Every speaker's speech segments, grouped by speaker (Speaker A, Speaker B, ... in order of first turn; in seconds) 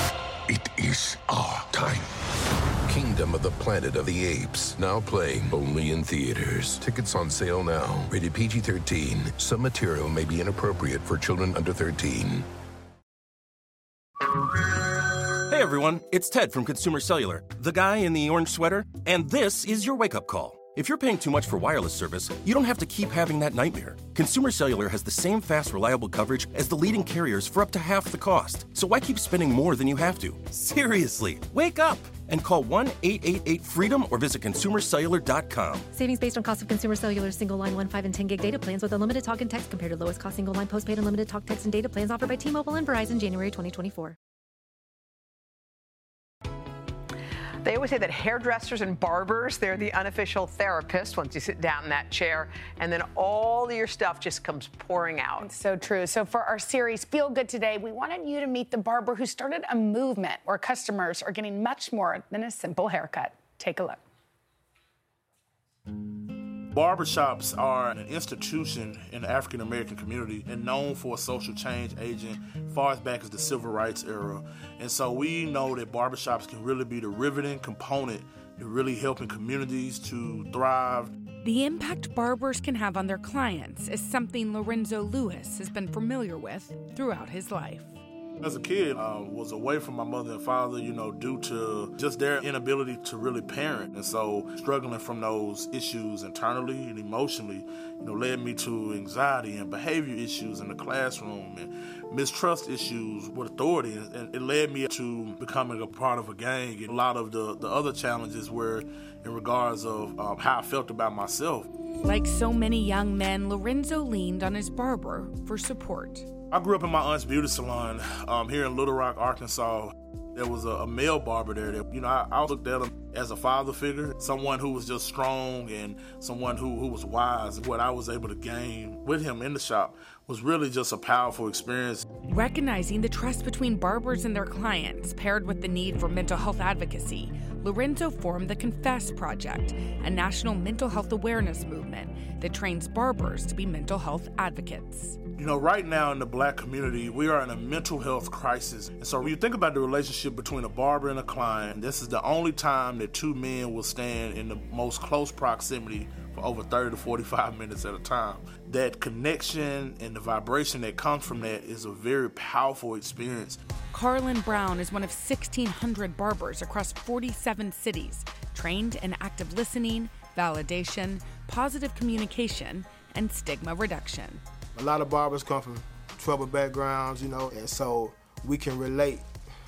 Speaker A: 0.5-2.1, 2.8-12.5
Speaker B: 15.4-35.9
Speaker C: 35.9-44.1
Speaker D: 47.6-55.5
Speaker E: 55.4-64.0
Speaker F: 66.7-81.2, 88.4-111.7, 116.5-132.1, 145.3-163.6
Speaker G: 81.4-87.9, 112.0-116.3, 132.2-145.2, 163.9-174.4
Speaker H: 174.7-179.3